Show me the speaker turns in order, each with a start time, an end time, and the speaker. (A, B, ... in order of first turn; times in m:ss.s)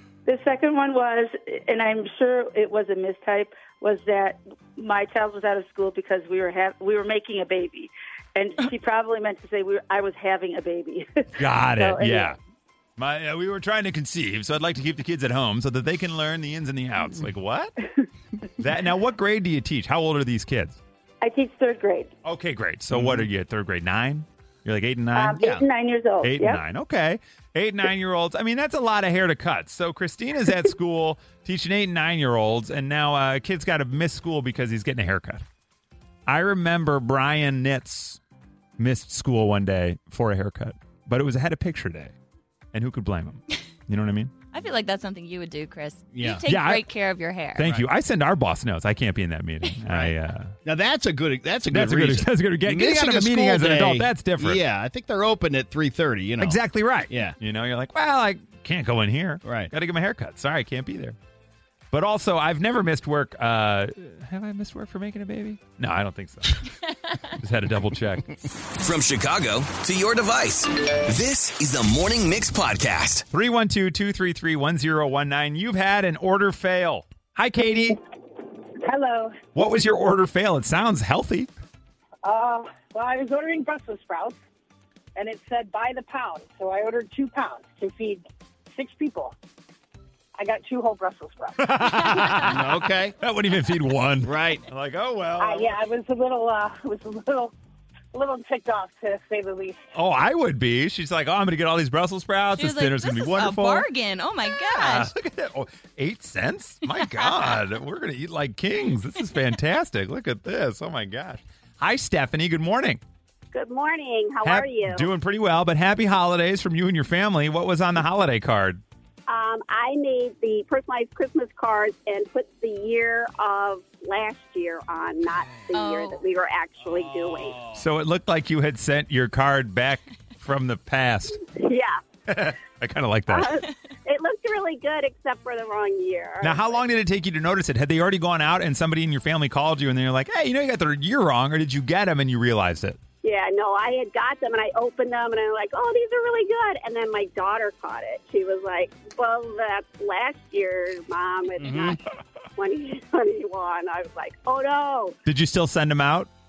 0:00.2-0:12.4 A
0:11.4-0:12.4 B
0:13.0-0:17.7 B
0:18.6-0:20.8 B
0:21.2-0:22.1 A
0:22.2-0:25.4 B
0:22.9-0:23.3 C
0:25.1-0:26.6 A
0:25.4-0:25.6 C
0:26.2-0:35.4 B
0:36.3-0:38.2 B
0:38.8-0:42.1 B
0:42.7-0:44.3 B
0:44.5-0:47.6 D
0:46.1-0:46.4 C
0:46.5-0:46.8 B
0:47.6-0:50.5 B
0:50.6-0:57.4 C
0:51.7-0:54.6 B
0:56.4-1:01.2 B
0:59.4-0:59.7 C
1:01.9-1:06.6 B
1:07.3-1:08.4 B
1:08.8-1:13.2 E
1:13.3-1:18.0 B
1:18.8-1:19.4 F
1:19.5-1:21.5 B
1:22.2-1:24.4 F
1:25.2-1:29.3 F
1:30.4-1:32.4 F
1:31.6-1:35.8 B
1:32.4-1:33.1 C
1:34.2-1:34.6 C
1:35.4-1:37.5 F
1:38.1-1:39.8 F
1:39.9-1:43.9 B
1:42.6-1:45.1 D
1:44.5-1:53.0 B
1:47.0-1:47.5 D
1:53.5-1:55.1 G
1:54.4-1:58.8 B
1:59.3-2:07.6 G
2:05.7-2:06.2 D
2:06.8-2:07.8 C
2:07.8-2:11.4 B
2:11.5-2:12.0 G
2:12.3-2:13.6 B
2:13.3-2:16.8 G
2:16.4-2:23.0 B
2:23.2-2:32.0 G
2:31.6-2:32.0 C
2:32.6-2:35.2 G
2:35.2-2:36.3 B